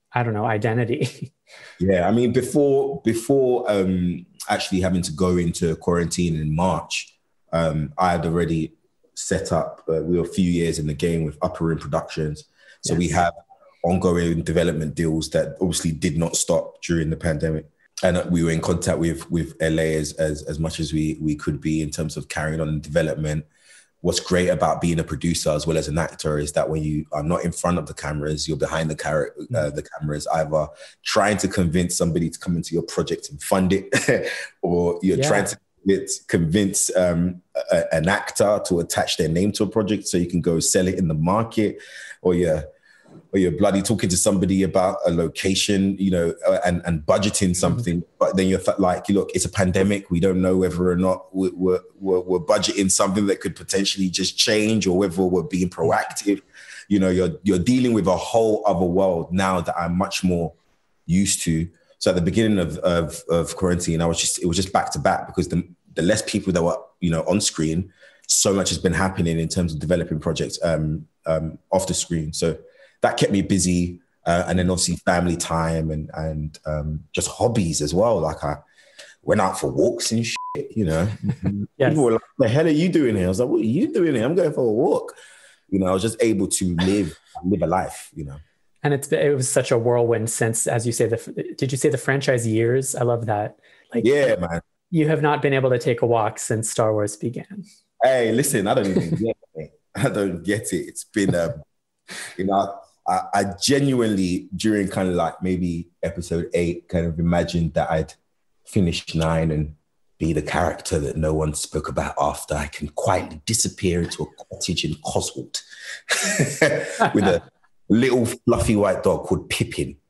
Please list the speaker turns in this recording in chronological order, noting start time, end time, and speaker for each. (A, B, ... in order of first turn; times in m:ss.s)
0:00.1-0:01.3 A
0:01.8-0:23.4 B
0:24.0-0:42.6 B
0:35.2-0:35.5 A
0:43.3-1:00.5 B
1:01.1-1:18.6 B
1:19.2-1:25.2 B
1:21.8-1:22.0 A
1:25.7-1:28.4 B
1:28.8-1:34.3 A
1:34.0-1:34.6 B
1:34.9-1:37.6 A
1:38.0-1:41.6 B
1:42.3-1:48.2 B
1:48.7-2:00.0 B